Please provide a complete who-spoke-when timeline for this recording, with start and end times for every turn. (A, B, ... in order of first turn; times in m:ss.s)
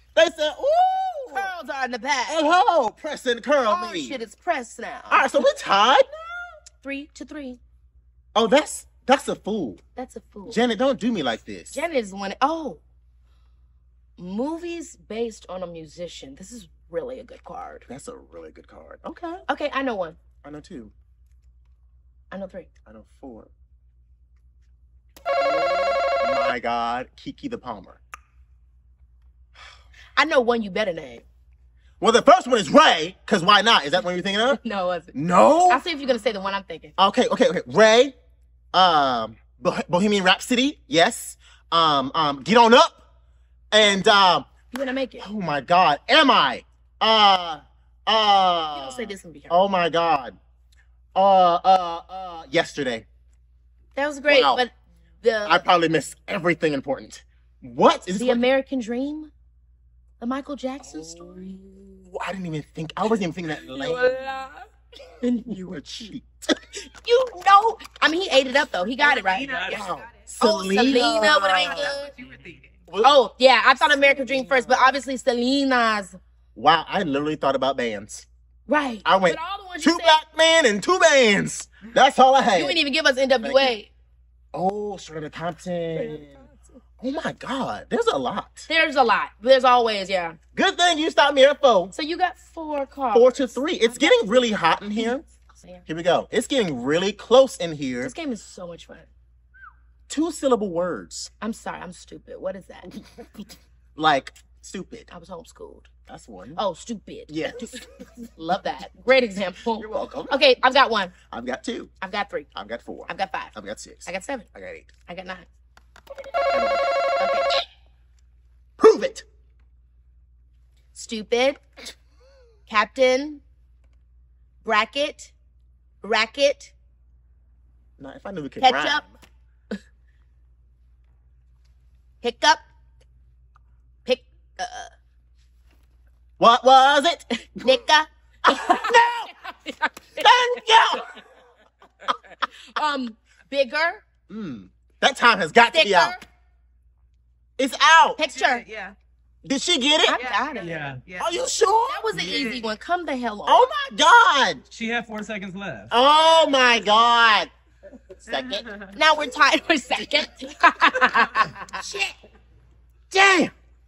0:00.2-0:01.5 A
0:01.3-0:02.4 B
0:02.3-0:04.2 A
0:03.7-0:05.4 B
0:05.1-0:06.6 A
0:06.8-0:07.6 B
0:08.4-0:09.8 A
0:10.0-0:10.6 B
0:10.5-0:11.8 A
0:11.7-0:12.8 B
0:14.2-0:17.9 B
0:17.9-0:19.4 A
0:19.5-0:20.2 B
0:20.4-0:20.9 A
0:22.3-0:22.7 B
0:22.9-0:23.5 A
0:25.4-0:28.0 A
0:30.2-0:31.2 B
0:32.0-0:34.6 A
0:34.5-0:35.1 B
0:35.1-0:35.8 A
0:35.7-0:37.0 B
0:37.0-0:38.2 A
0:38.7-0:43.0 A
0:43.7-0:44.5 A
0:44.7-0:45.3 B
0:45.2-0:50.4 A
0:48.7-0:49.6 B
0:51.2-0:53.1 A
0:54.0-0:55.6 B
0:54.3-0:54.6 A
0:55.4-0:58.4 A
0:58.2-0:59.3 B
1:00.2-1:01.5 B
1:00.8-1:04.3 A
1:03.7-1:04.6 B
1:05.2-1:05.5 B
1:05.5-1:06.6 A
1:06.8-1:09.6 B
1:09.0-1:12.8 C
1:09.4-1:09.9 D
1:09.7-1:12.0 A
1:10.4-1:12.1 B
1:12.9-1:13.2 A
1:13.0-1:16.2 B
1:13.8-1:15.0 A
1:16.6-1:18.3 A
1:18.7-1:20.2 B
1:19.0-1:22.8 A
1:22.6-1:23.9 B
1:23.4-1:23.8 A
1:24.5-1:26.4 A
1:26.0-1:26.6 B
1:27.0-1:28.7 A
1:28.7-1:30.4 B
1:30.6-1:31.9 A
1:31.9-1:34.4 B
1:33.1-1:35.2 A
1:35.0-1:35.8 B
1:35.9-1:38.1 A
1:38.0-1:39.1 B
1:40.1-1:41.3 A
1:41.4-1:42.9 B
1:42.9-1:45.1 A
1:45.1-1:45.9 B
1:46.1-1:46.6 A
1:46.6-1:51.2 B
1:47.3-1:48.1 A
1:49.8-1:50.4 A
1:51.2-1:51.9 A
1:52.0-1:52.5 B
1:52.6-1:54.9 A
1:53.1-1:53.5 B
1:54.0-1:54.5 B
1:55.0-1:55.5 B
1:56.5-1:57.0 A
1:57.2-1:57.5 B
1:58.8-1:59.3 A
2:00.9-2:01.6 B
2:02.7-2:03.4 B
2:04.6-2:05.3 B
2:06.0-2:06.7 B
2:08.0-2:09.2 A
2:08.6-2:09.0 B
2:12.2-2:12.6 B
2:14.0-2:14.9 B
2:16.4-2:17.8 A
2:17.6-2:20.4 B
2:18.4-2:19.3 A
2:20.2-2:21.2 A
2:22.1-2:24.0 B
2:24.3-2:26.2 A
2:25.7-2:26.2 B
2:27.6-2:28.2 A
2:28.2-2:28.6 B
2:28.2-2:29.0 C
2:29.4-2:30.2 A
2:30.1-2:30.8 B
2:30.1-2:31.4 C
2:30.6-2:31.0 D
2:31.2-2:32.6 A
2:31.9-2:33.7 B
2:32.1-2:32.5 D
2:32.3-2:32.5 C
2:33.4-2:34.6 A
2:34.7-2:35.9 D
2:35.9-2:37.5 A
2:38.2-2:38.7 A
2:38.3-2:38.9 C
2:38.9-2:41.8 B
2:40.0-2:40.2 A
2:41.1-2:42.1 A
2:43.1-2:43.5 A